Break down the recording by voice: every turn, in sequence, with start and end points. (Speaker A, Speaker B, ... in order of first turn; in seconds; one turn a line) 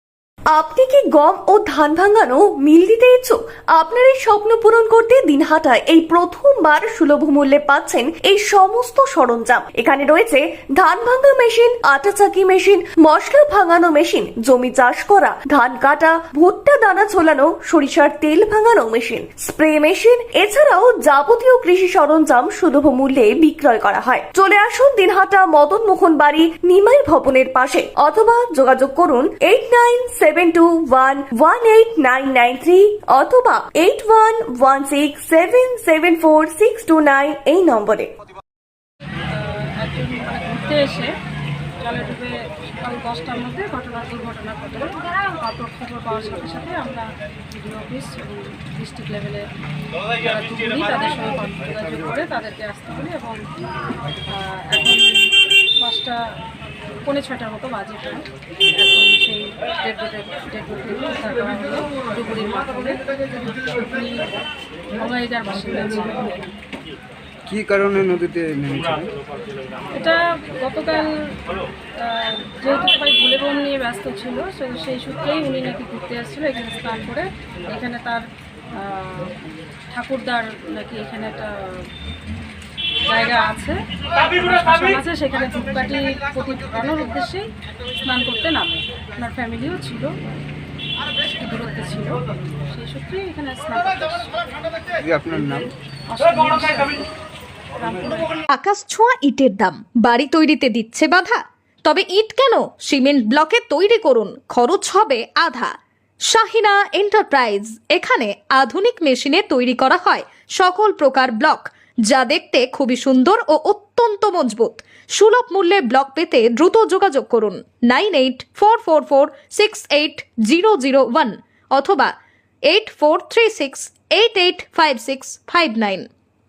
Speaker A: 0.5-38.1
Speaker B: 39.3-41.1
Speaker B: 41.8-49.4
Speaker B: 50.2-53.4
Speaker B: 54.3-55.0
Speaker B: 55.8-56.1
Speaker B: 57.0-64.4
Speaker B: 65.0-66.5
Speaker C: 67.5-69.1
Speaker B: 69.9-71.1
Speaker B: 72.0-78.2
Speaker B: 78.8-79.3
Speaker B: 79.9-81.8
Speaker B: 83.1-83.8
Speaker B: 84.3-87.4
Speaker B: 88.0-90.1
Speaker B: 91.4-94.5
Speaker C: 95.0-95.7
Speaker B: 96.1-97.1
Speaker B: 97.8-98.4
Speaker D: 98.5-105.7
Speaker D: 106.3-122.1
Speaker D: 122.7-126.1